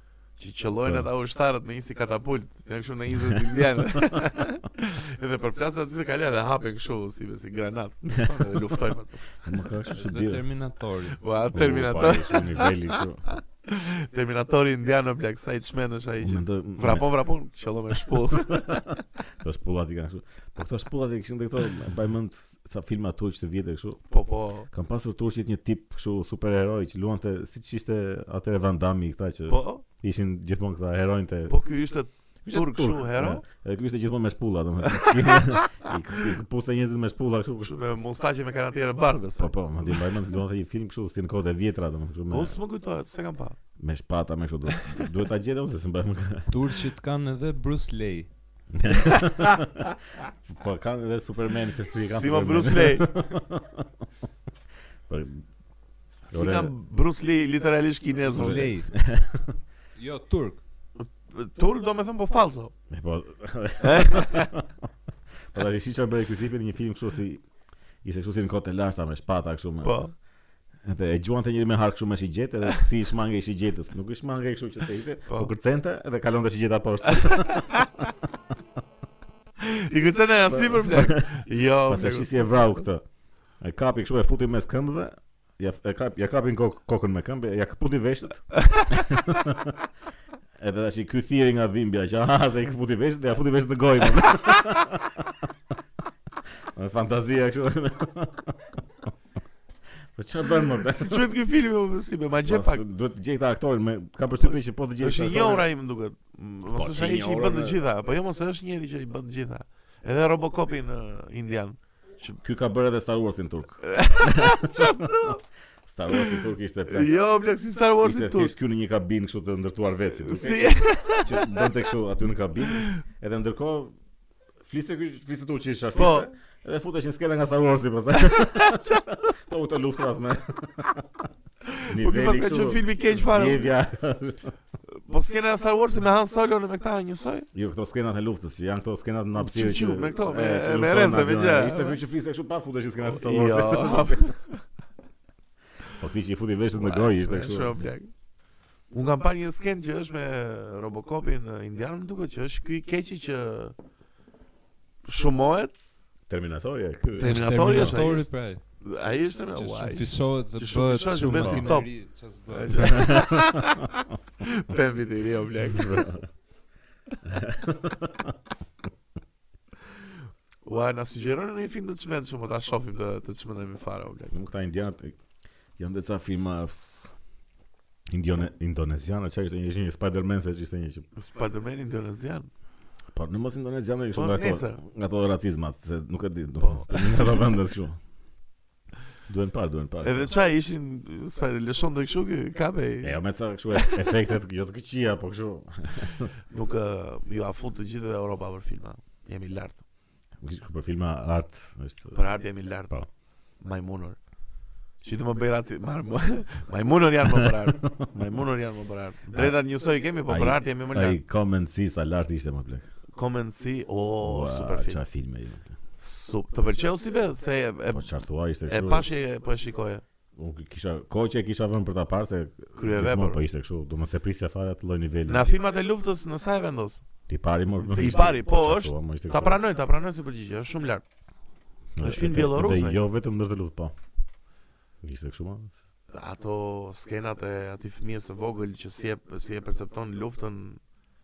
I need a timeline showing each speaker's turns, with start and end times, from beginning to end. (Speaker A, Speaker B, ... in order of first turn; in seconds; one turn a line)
Speaker A: 0.4-9.6
Speaker B: 0.8-1.1
Speaker B: 8.1-8.4
Speaker B: 9.4-10.4
Speaker C: 9.9-11.3
Speaker A: 11.2-18.9
Speaker B: 11.5-13.2
Speaker B: 16.2-17.1
Speaker B: 18.1-18.8
Speaker B: 19.4-24.1
Speaker A: 24.1-24.7
Speaker B: 24.7-31.5
Speaker A: 29.5-29.8
Speaker A: 31.5-33.4
Speaker B: 32.4-37.7
Speaker A: 34.8-35.9
Speaker A: 37.6-40.0
Speaker B: 39.4-42.5
Speaker A: 42.3-43.6
Speaker B: 43.8-46.5
Speaker C: 46.5-48.3
Speaker B: 48.7-49.8
Speaker B: 50.5-53.9
Speaker A: 52.1-53.1
Speaker B: 55.1-55.5
Speaker B: 56.3-56.7
Speaker A: 56.3-58.7
Speaker C: 58.3-58.9
Speaker B: 58.3-59.5
Speaker C: 59.9-60.6
Speaker A: 61.0-62.7
Speaker B: 62.9-64.7
Speaker A: 63.8-64.5
Speaker B: 65.5-67.5
Speaker B: 68.0-70.0
Speaker A: 69.8-70.1
Speaker B: 70.8-77.9
Speaker A: 77.2-77.8
Speaker A: 79.6-82.8
Speaker B: 80.5-83.0
Speaker B: 83.6-89.7
Speaker A: 88.7-89.0
Speaker B: 90.6-95.5
Speaker B: 96.7-98.8
Speaker B: 100.1-101.3
Speaker A: 101.0-102.8
Speaker B: 102.4-105.7
Speaker A: 105.0-112.4
Speaker B: 106.7-107.8
Speaker B: 112.4-115.1
Speaker A: 113.8-115.4
Speaker B: 115.8-117.1
Speaker A: 116.1-118.5
Speaker B: 118.0-124.0
Speaker A: 120.2-121.7
Speaker A: 122.7-123.0
Speaker B: 124.6-131.2
Speaker A: 125.9-126.3
Speaker A: 128.2-129.2
Speaker A: 131.7-133.7
Speaker B: 131.9-134.5
Speaker A: 135.0-137.5
Speaker B: 137.5-144.3
Speaker A: 139.3-142.0
Speaker A: 143.0-144.6
Speaker B: 146.0-147.8
Speaker A: 146.7-148.1
Speaker A: 148.9-153.8
Speaker A: 155.0-155.7
Speaker B: 156.3-158.0
Speaker C: 157.2-158.8
Speaker A: 157.2-166.1
Speaker C: 159.5-163.3
Speaker B: 161.4-161.7
Speaker B: 162.9-163.6
Speaker B: 165.7-166.3
Speaker B: 167.2-168.3
Speaker A: 170.6-174.3
Speaker B: 174.3-175.2
Speaker B: 175.8-177.1
Speaker B: 178.1-181.1
Speaker A: 181.1-182.5
Speaker B: 183.1-188.0
Speaker A: 184.1-184.8
Speaker A: 186.6-187.4
Speaker B: 189.3-190.3
Speaker A: 190.0-193.2
Speaker B: 193.0-196.3
Speaker A: 193.7-194.1
Speaker A: 196.5-199.8
Speaker B: 200.4-202.2
Speaker A: 202.1-202.9
Speaker A: 203.6-204.2
Speaker A: 205.0-211.2
Speaker B: 207.3-208.0
Speaker B: 210.3-212.9
Speaker A: 213.1-215.0
Speaker B: 214.2-215.7
Speaker A: 216.0-218.1
Speaker B: 217.9-219.1
Speaker A: 218.6-220.0
Speaker B: 220.3-225.5
Speaker A: 222.7-223.4
Speaker A: 225.3-227.0
Speaker B: 227.3-229.6
Speaker A: 227.8-231.0
Speaker B: 231.9-233.9
Speaker A: 232.0-233.0
Speaker B: 235.0-235.7
Speaker A: 236.1-240.8